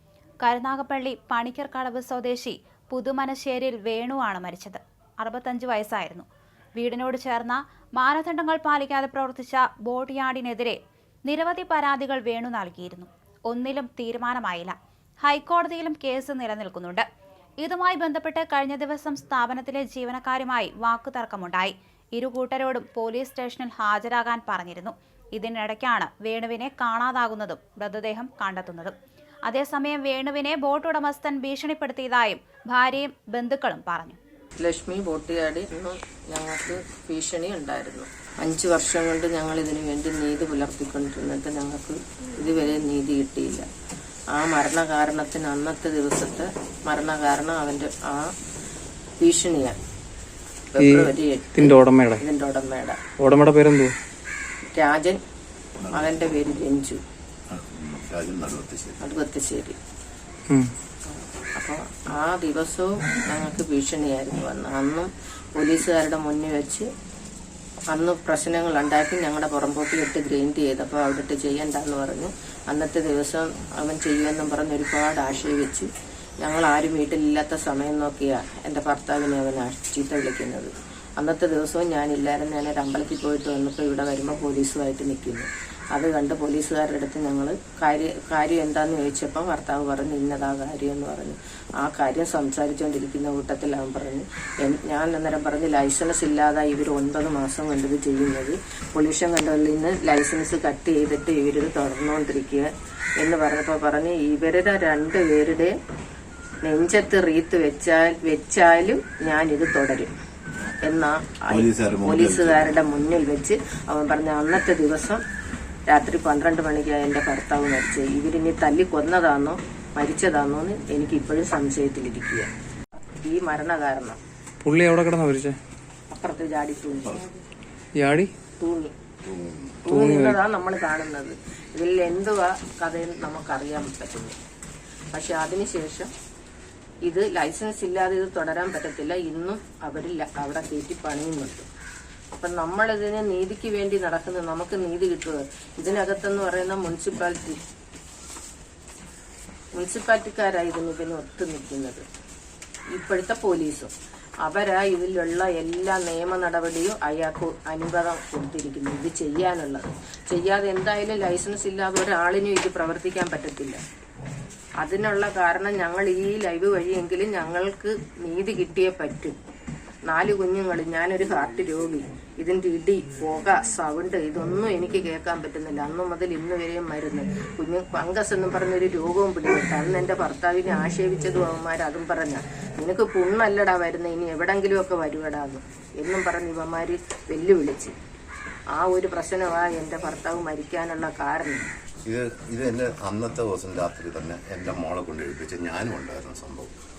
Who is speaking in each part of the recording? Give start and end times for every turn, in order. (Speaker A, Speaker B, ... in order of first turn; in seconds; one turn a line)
Speaker A: 0.4-17.0
Speaker A: 17.6-28.9
Speaker A: 29.5-34.2
Speaker B: 34.6-43.7
Speaker B: 44.3-48.3
Speaker B: 49.2-49.8
Speaker B: 50.7-53.0
Speaker C: 50.8-52.2
Speaker C: 53.2-53.9
Speaker B: 54.7-55.2
Speaker D: 55.8-56.1
Speaker B: 55.9-57.0
Speaker D: 57.5-59.0
Speaker B: 59.0-59.8
Speaker B: 61.6-66.9
Speaker B: 67.9-75.9
Speaker B: 76.4-105.7
Speaker B: 106.6-110.1
Speaker B: 110.8-115.2
Speaker D: 111.5-112.6
Speaker B: 115.9-122.5
Speaker B: 123.2-124.2
Speaker C: 124.6-125.6
Speaker B: 126.1-127.3
Speaker C: 128.0-128.3
Speaker B: 128.6-128.9
Speaker D: 129.2-129.8
Speaker B: 129.8-134.4
Speaker C: 129.9-130.4
Speaker B: 135.1-136.1
Speaker B: 137.1-141.7
Speaker B: 142.4-147.6
Speaker B: 149.8-152.0
Speaker B: 152.9-153.9
Speaker B: 154.4-163.8
Speaker B: 164.8-169.3
Speaker B: 170.1-187.9
Speaker B: 188.7-191.7
Speaker D: 192.0-196.8